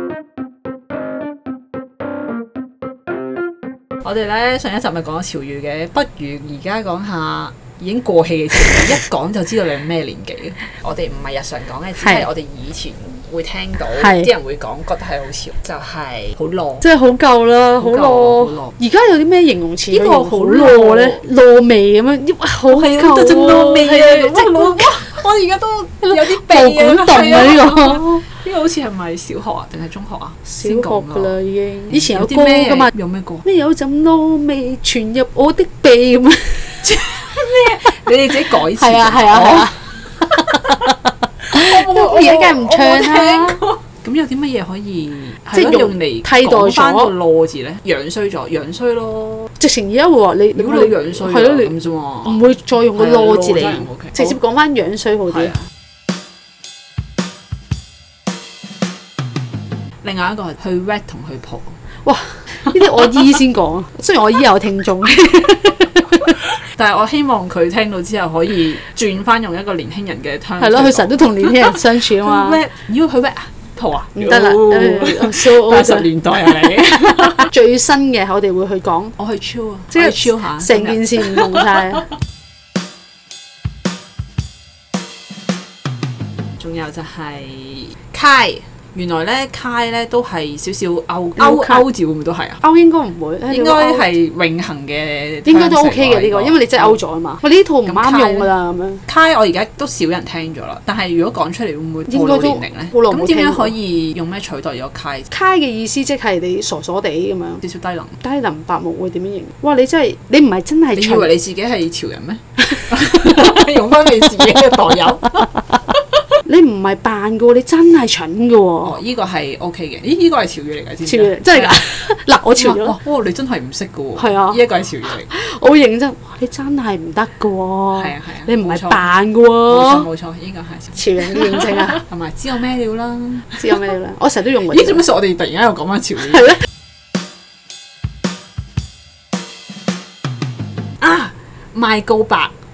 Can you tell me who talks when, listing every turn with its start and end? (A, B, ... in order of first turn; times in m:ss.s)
0:04.0-0:16.8 A
0:12.0-0:12.3 B
0:14.0-0:14.3 B
0:16.8-0:25.1 B
0:17.8-0:18.7 A
0:19.9-0:21.2 A
0:22.7-0:31.3 A
0:26.0-0:28.2 B
0:30.5-0:32.9 B
0:31.9-0:33.4 A
0:33.4-0:37.0 B
0:36.8-0:40.8 A
0:38.5-0:41.0 B
0:41.5-0:49.5 A
0:41.5-0:43.6 B
0:45.5-0:47.1 B
0:49.6-0:51.7 B
0:50.6-0:52.4 A
0:52.2-0:55.5 B
0:53.0-0:54.4 A
0:55.3-0:55.6 A
1:00.0-1:01.8 A
1:02.0-1:06.4 B
1:02.6-1:03.1 A
1:06.7-1:17.5 A
1:10.6-1:12.6 B
1:14.2-1:19.2 B
1:19.2-1:21.8 A
1:19.9-1:22.1 B
1:26.6-1:32.6 A
1:31.4-1:31.8 B
1:32.6-1:34.1 B
1:33.5-1:37.0 A
1:35.5-1:39.0 B
1:37.9-1:38.5 A
1:39.1-1:45.3 A
1:42.1-1:43.8 B
1:45.3-1:47.6 B
1:47.6-1:48.2 A
1:48.2-1:51.3 B
1:51.0-1:55.8 A
1:56.4-1:58.9 B
1:58.8-2:01.9 A
2:01.0-2:03.0 B
2:02.5-2:05.3 A
2:04.2-2:04.6 B
2:05.3-2:10.1 B
2:08.0-2:09.1 A
2:09.7-2:13.8 A
2:11.0-2:12.0 B
2:13.6-2:15.0 B
2:14.7-2:16.6 A
2:21.0-2:22.6 A